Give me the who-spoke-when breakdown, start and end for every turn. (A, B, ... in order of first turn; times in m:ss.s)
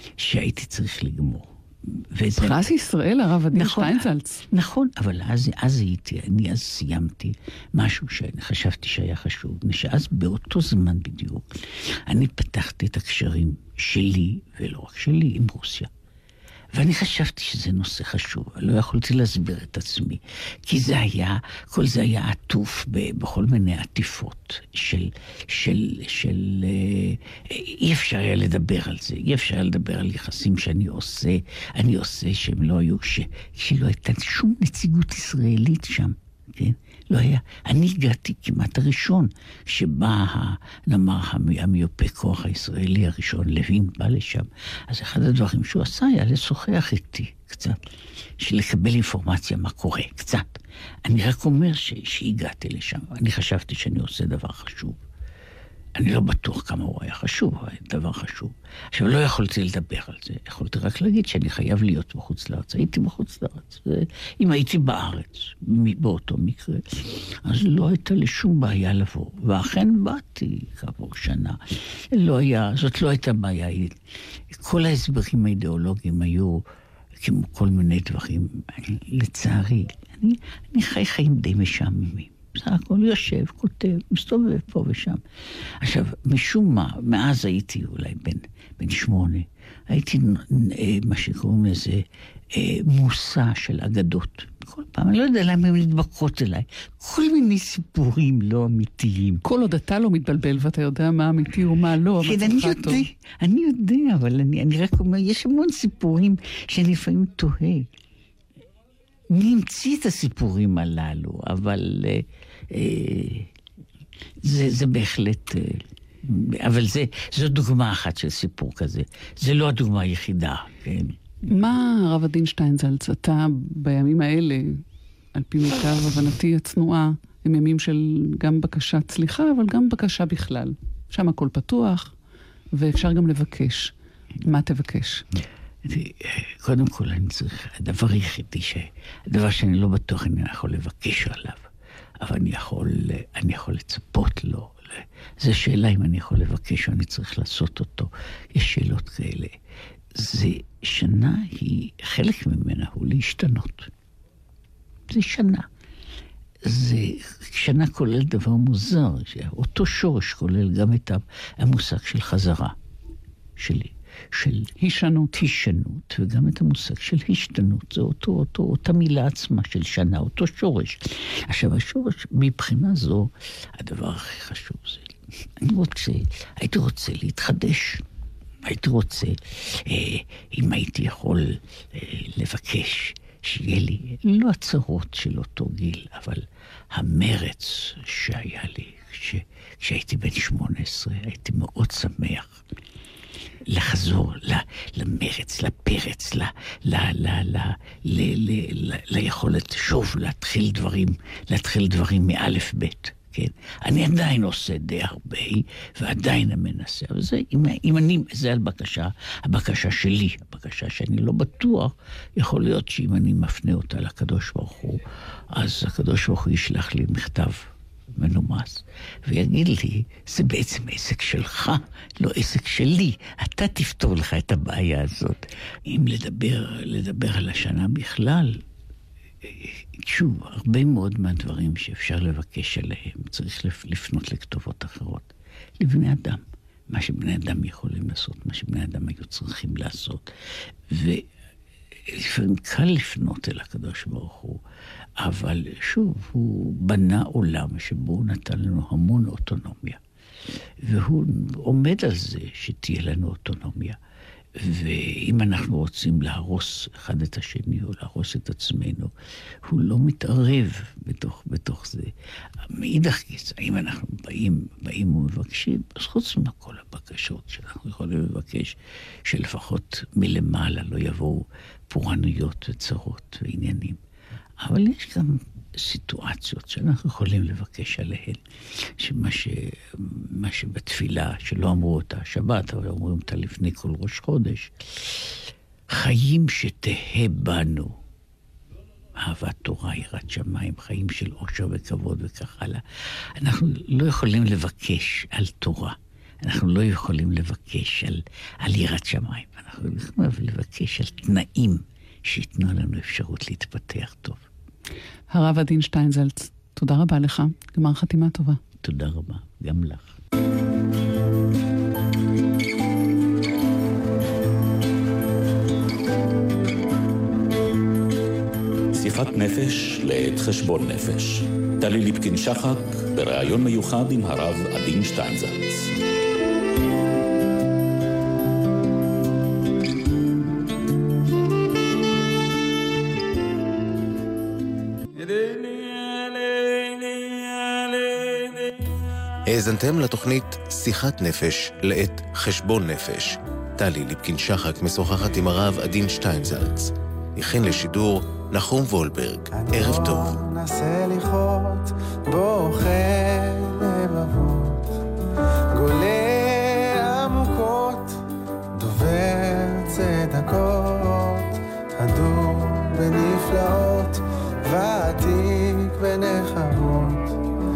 0:00.2-0:02.6 A
0:02.4-0:04.4 B
0:03.5-0:15.9 A
0:16.7-0:47.8 A
0:48.4-0:55.0 A
0:55.9-1:11.6 A
1:12.1-1:14.0 A
1:14.5-1:16.6 A
1:17.2-1:25.2 A
1:25.8-1:39.4 A
1:39.4-1:43.0 B
1:42.2-1:47.9 A
1:49.3-1:53.5 A
1:54.4-2:01.2 A
2:01.5-2:04.8 B
2:05.3-2:12.1 B
2:12.7-2:15.2 B
2:15.8-2:21.6 A
2:22.2-2:29.6 A
2:30.1-2:33.9 A
2:35.1-2:35.7 A
2:36.6-2:42.8 A
2:43.6-2:44.7 A
2:44.8-2:45.4 B
2:45.3-2:58.0 A
2:58.6-3:12.6 A
3:13.6-3:48.6 A
3:49.4-4:00.2 A
4:00.9-4:01.3 A
4:02.0-4:04.6 A
4:05.2-4:10.0 A
4:10.8-4:14.0 A
4:14.6-4:19.1 A
4:19.6-4:22.1 A
4:22.6-4:34.0 A
4:34.6-4:47.9 A
4:49.2-4:52.8 A
4:53.4-5:04.4 A
5:05.3-5:08.6 B
5:08.8-5:10.2 A
5:18.9-5:25.9 C
5:39.5-5:50.4 D
5:49.5-5:54.9 E
5:55.7-5:58.2 E
5:58.8-6:07.3 E